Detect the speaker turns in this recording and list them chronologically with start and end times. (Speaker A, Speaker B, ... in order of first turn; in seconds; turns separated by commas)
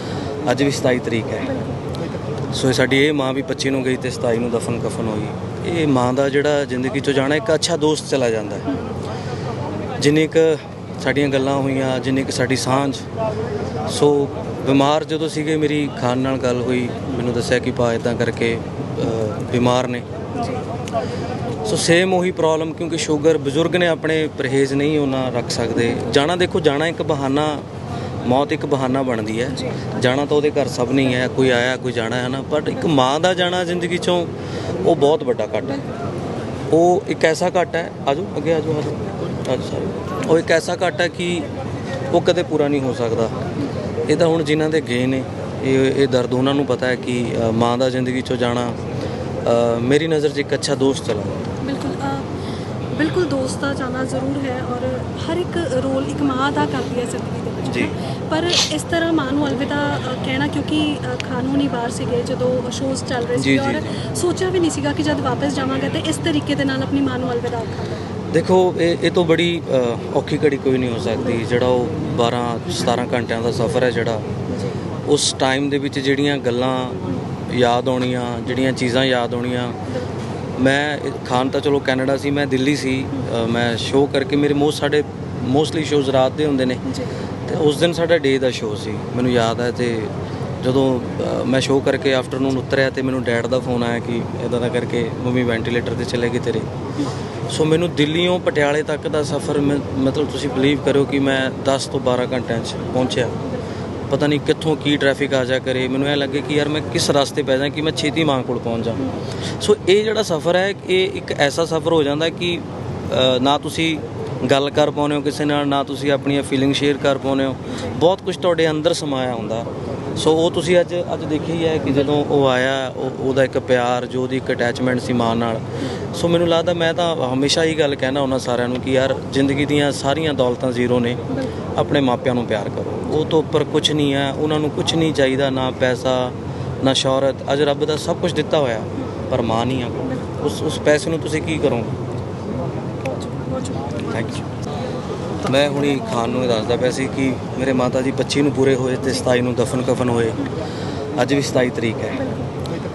Speaker A: 0.5-1.6, Speaker A: 2.5-8.7, Speaker A: 10.0-13.1, Speaker A: 13.9-20.1, Speaker B: 20.4-20.6, Speaker A: 21.6-27.7, Speaker A: 28.2-34.3, Speaker A: 34.8-35.8, Speaker A: 36.7-41.5, Speaker A: 42.1-43.4, Speaker A: 44.1-48.8, Speaker A: 49.4-51.5, Speaker B: 51.6-52.4, Speaker B: 52.9-68.0, Speaker A: 57.6-57.9, Speaker A: 63.4-63.9, Speaker A: 68.3-74.3, Speaker B: 74.5-74.8, Speaker A: 75.0-79.8, Speaker A: 80.5-86.8, Speaker A: 87.5-96.7, Speaker A: 97.5-103.4, Speaker A: 104.1-131.2, Speaker A: 131.8-141.9, Speaker B: 143.0-144.1, Speaker A: 144.1-144.5, Speaker A: 145.5-150.5, Speaker A: 151.2-152.2, Speaker B: 152.2-152.5